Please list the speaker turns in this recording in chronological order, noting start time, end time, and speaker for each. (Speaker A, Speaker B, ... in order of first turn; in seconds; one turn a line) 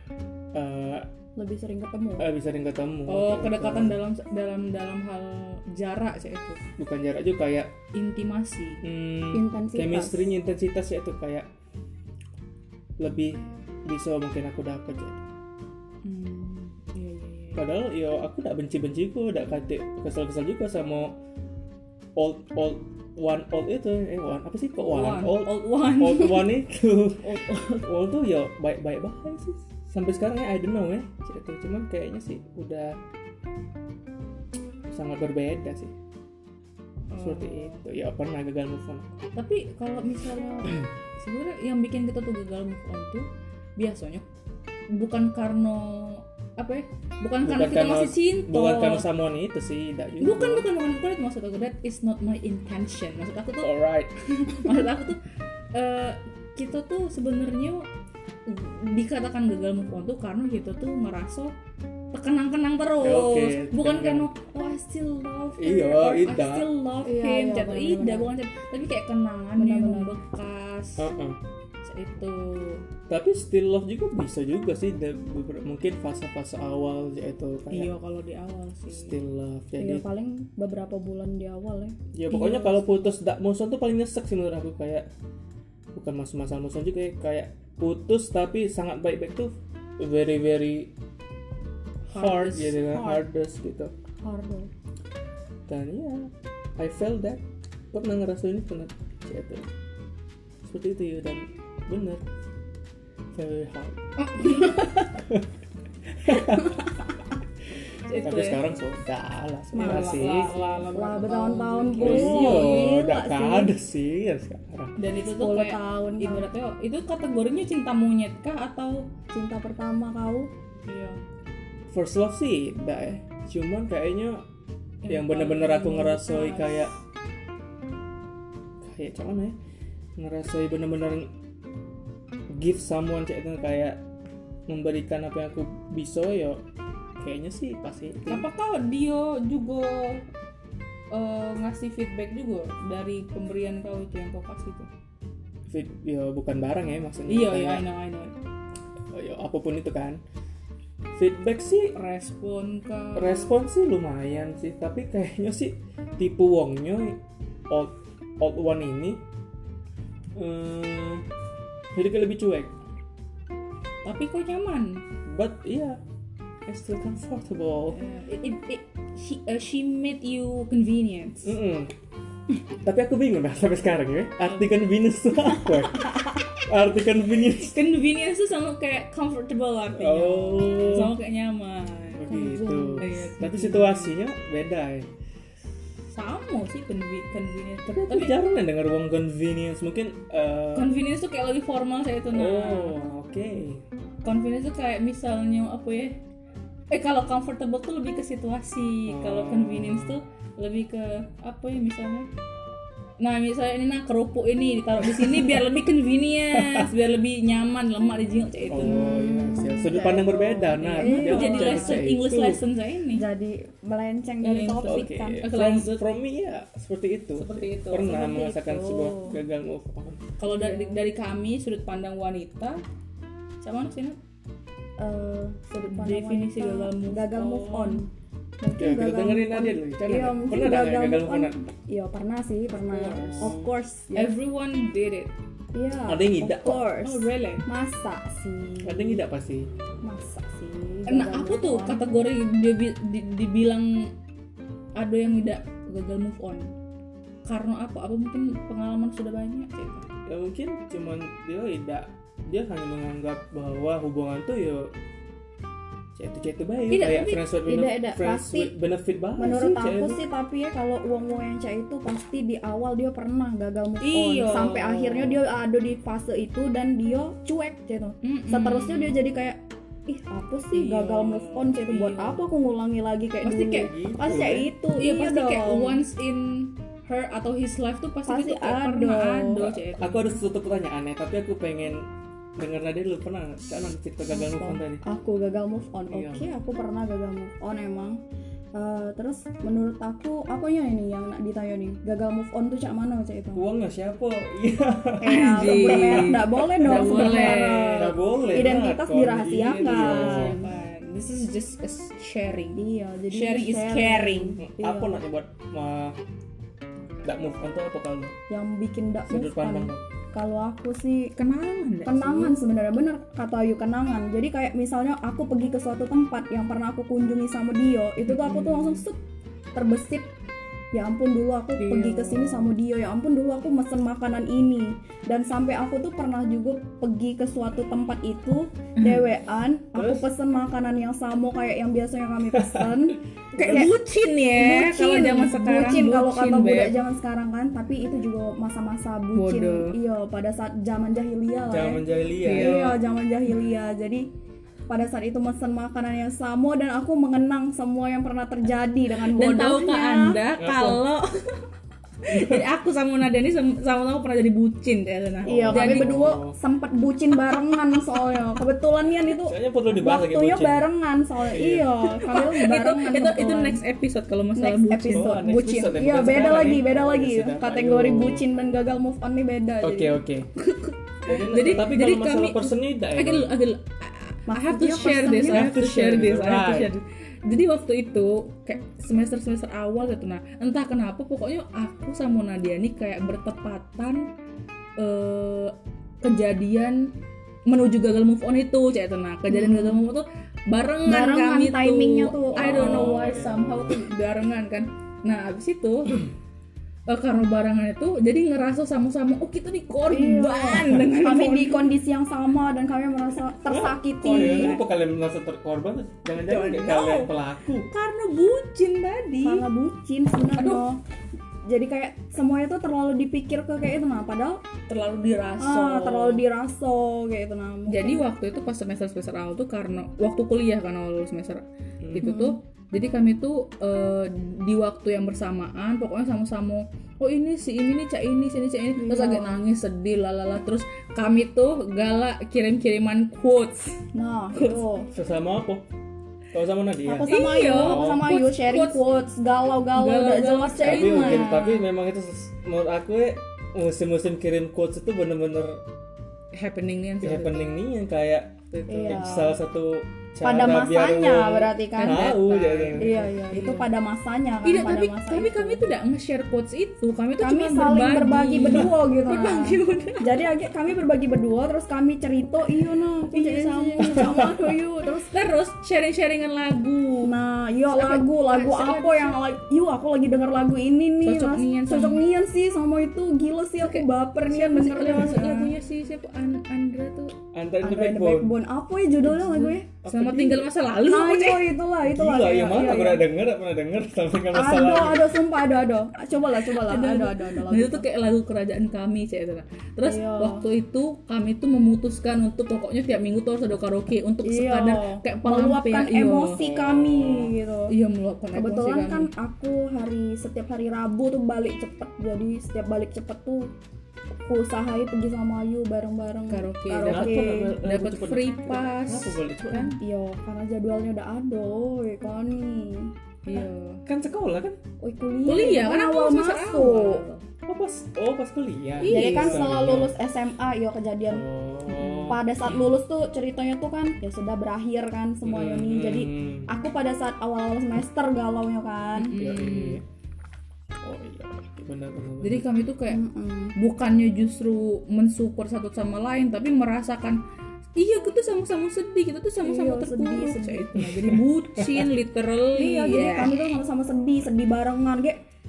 Speaker A: 0.5-1.1
Speaker B: 1.4-2.3
Speaker A: 2.2-4.0
Speaker C: 3.1-6.6
Speaker A: 6.8-7.7
Speaker C: 7.9-8.8
Speaker A: 8.8-11.5
Speaker B: 9.3-10.3
Speaker A: 13.0-15.2
Speaker C: 16.0-17.6
Speaker A: 17.5-21.1
Speaker A: 22.1-33.0
Speaker C: 24.8-26.5
Speaker C: 27.2-27.9
Speaker A: 34.9-35.9
Speaker C: 37.1-37.8
Speaker A: 37.2-39.2
Speaker C: 39.4-43.2
Speaker C: 43.8-44.2
Speaker C: 44.9-49.0
Speaker A: 47.4-50.7
Speaker C: 50.2-53.7
Speaker A: 53.6-54.1
Speaker C: 54.5-55.2
Speaker C: 55.7-57.9
Speaker C: 58.5-61.5
Speaker C: 62.1-71.1
Speaker A: 63.0-64.3
Speaker A: 65.6-66.7
Speaker B: 67.0-68.3
Speaker B: 69.6-70.1
Speaker A: 71.0-71.4
Speaker C: 71.8-72.8
Speaker A: 73.1-77.9
Speaker C: 77.7-79.2
Speaker A: 78.9-80.0
Speaker B: 79.8-82.0
Speaker A: 82.1-85.1
Speaker C: 82.3-82.8
Speaker A: 85.9-90.9
Speaker C: 92.1-93.2
Speaker A: 92.1-93.9
Speaker B: 94.2-94.7
Speaker A: 95.7-99.7
Speaker A: 100.6-102.2
Speaker A: 103.3-105.5
Speaker C: 104.2-105.2
Speaker A: 106.1-106.8
Speaker C: 108.0-108.6
Speaker A: 108.2-110.5
Speaker B: 109.7-113.7
Speaker C: 109.8-112.8
Speaker A: 112.0-114.9
Speaker C: 115.0-119.1
Speaker B: 115.3-116.5
Speaker B: 119.3-120.5
Speaker C: 120.8-121.2
Speaker A: 121.9-124.4
Speaker C: 125.0-126.9
Speaker A: 125.1-127.0
Speaker A: 128.8-129.6
Speaker A: 130.2-131.3
Speaker A: 132.5-134.0
Speaker A: 134.7-136.6
Speaker A: 137.2-138.4
Speaker C: 138.3-140.2
Speaker C: 141.1-144.9
Speaker A: 145.7-147.8
Speaker C: 147.3-148.3
Speaker A: 149.1-150.2
Speaker A: 151.1-151.9
Speaker C: 151.9-153.5
Speaker A: 153.1-159.2
Speaker A: 160.3-161.2
Speaker A: 161.9-162.7
Speaker C: 164.0-165.0
Speaker A: 165.2-166.0
Speaker A: 166.7-168.0
Speaker C: 167.9-171.6
Speaker A: 171.4-171.9
Speaker A: 172.8-177.8
Speaker C: 174.4-174.7
Speaker C: 177.5-184.2
Speaker A: 179.9-181.2
Speaker A: 182.1-185.1
Speaker B: 182.7-183.2
Speaker C: 186.1-188.3
Speaker A: 187.8-190.9
Speaker C: 190.7-192.9
Speaker A: 192.3-193.8
Speaker C: 194.2-196.2
Speaker C: 196.9-202.3
Speaker A: 199.1-200.2
Speaker C: 203.2-209.1
Speaker A: 205.0-205.6
Speaker A: 206.5-206.9
Speaker A: 208.7-212.6
Speaker B: 208.8-212.0
Speaker C: 210.9-213.2
Speaker B: 213.1-215.4
Speaker C: 214.4-216.0
Speaker A: 214.8-220.2
Speaker C: 217.3-219.1
Speaker B: 218.8-219.3
Speaker C: 220.4-222.8
Speaker B: 220.5-221.0
Speaker C: 223.6-224.2
Speaker B: 225.0-228.1
Speaker C: 225.8-228.0
Speaker B: 228.6-234.3
Speaker A: 228.8-231.6
Speaker C: 232.7-233.5
Speaker A: 233.1-233.7
Speaker C: 234.1-235.3
Speaker B: 235.7-239.2
Speaker A: 236.1-236.8
Speaker C: 237.0-237.7
Speaker A: 238.8-239.7
Speaker B: 240.0-242.2
Speaker C: 241.1-244.1
Speaker C: 244.9-246.7
Speaker C: 247.4-250.1
Speaker A: 250.2-254.9
Speaker A: 256.1-260.2
Speaker C: 256.9-257.4
Speaker B: 257.5-258.7
Speaker B: 259.4-276.0
Speaker C: 264.0-265.4
Speaker C: 268.2-269.2
Speaker C: 270.7-272.6
Speaker C: 273.4-273.9
Speaker A: 273.8-274.7
Speaker C: 275.0-280.4
Speaker B: 278.3-279.7
Speaker A: 279.9-285.0
Speaker B: 284.4-288.2
Speaker A: 286.1-286.5
Speaker B: 288.7-293.6
Speaker A: 293.5-300.6
Speaker B: 295.2-300.6
Speaker C: 295.3-298.1
Speaker C: 299.5-304.6
Speaker B: 302.7-305.2
Speaker A: 304.6-306.2
Speaker A: 307.2-308.3
Speaker B: 308.5-311.3
Speaker A: 309.3-310.0
Speaker C: 311.4-312.6
Speaker B: 312.0-319.2
Speaker C: 318.2-319.0
Speaker B: 319.8-320.3
Speaker B: 320.9-333.9
Speaker C: 321.8-322.7
Speaker C: 329.0-329.3
Speaker A: 329.9-330.3
Speaker A: 332.5-333.0
Speaker A: 333.5-333.9
Speaker C: 333.6-337.0
Speaker B: 334.6-344.2
Speaker C: 339.3-339.9
Speaker A: 341.7-343.0
Speaker C: 342.4-342.9
Speaker B: 344.9-350.4
Speaker C: 349.1-351.6
Speaker A: 350.6-351.0
Speaker C: 352.2-356.2
Speaker A: 352.2-352.6
Speaker A: 355.4-356.6
Speaker B: 355.4-363.8
Speaker A: 359.4-360.9
Speaker A: 361.5-362.0
Speaker C: 362.2-365.4
Speaker B: 364.6-370.2
Speaker A: 365.1-368.4
Speaker A: 369.8-370.5
Speaker C: 370.6-384.3
Speaker A: 371.2-373.5
Speaker B: 374.5-375.7
Speaker A: 375.4-376.9
Speaker C: 385.0-387.1
Speaker C: 387.7-396.2
Speaker B: 389.5-390.1
Speaker B: 391.1-393.3
Speaker A: 392.5-394.0
Speaker C: 397.1-401.8
Speaker B: 400.1-404.8
Speaker A: 403.6-407.9
Speaker C: 404.2-404.8
Speaker C: 406.4-407.3
Speaker C: 407.9-409.6
Speaker B: 409.4-411.0
Speaker C: 410.5-410.8
Speaker B: 411.7-414.6
Speaker C: 414.9-416.4
Speaker B: 415.6-418.2
Speaker C: 417.9-433.9
Speaker A: 422.0-422.3
Speaker B: 422.2-422.6
Speaker B: 429.0-429.6
Speaker B: 434.1-435.1
Speaker C: 434.5-434.8
Speaker A: 435.1-435.8
Speaker A: 436.5-438.2
Speaker B: 437.1-441.6
Speaker C: 437.2-439.0
Speaker C: 439.9-441.8
Speaker A: 440.8-445.8
Speaker C: 446.5-447.7
Speaker A: 447.2-453.1
Speaker B: 448.9-449.6
Speaker B: 450.4-452.4
Speaker C: 452.0-453.9
Speaker B: 452.9-455.9
Speaker C: 454.6-460.5
Speaker B: 457.4-465.3
Speaker C: 463.3-464.8
Speaker C: 465.3-467.3
Speaker B: 467.2-475.7
Speaker C: 467.9-469.4
Speaker C: 471.2-472.2
Speaker C: 473.8-477.3
Speaker A: 477.5-478.5
Speaker B: 477.8-479.9
Speaker C: 479.2-481.7
Speaker A: 480.0-480.6
Speaker B: 481.1-483.2
Speaker A: 482.0-485.4
Speaker B: 484.5-488.0
Speaker C: 486.7-496.6
Speaker B: 490.0-490.6
Speaker B: 494.4-497.9
Speaker A: 496.6-497.5
Speaker C: 497.9-499.3
Speaker B: 498.5-503.7
Speaker B: 504.5-507.8
Speaker C: 506.5-510.0
Speaker A: 507.0-509.9
Speaker B: 509.9-513.1
Speaker C: 513.4-514.0
Speaker A: 514.0-514.8
Speaker B: 515.0-517.2
Speaker C: 515.5-517.4
Speaker A: 517.6-520.1
Speaker C: 519.0-519.7
Speaker B: 519.1-521.5
Speaker A: 521.3-522.9
Speaker C: 521.9-522.4
Speaker B: 522.3-529.4
Speaker A: 525.4-526.7
Speaker C: 529.2-530.0
Speaker A: 529.3-530.0
Speaker A: 531.0-532.6
Speaker C: 532.4-533.2
Speaker B: 533.1-533.7
Speaker C: 533.7-537.4
Speaker C: 538.0-543.5
Speaker B: 539.6-540.9
Speaker A: 541.0-542.1
Speaker B: 542.7-545.4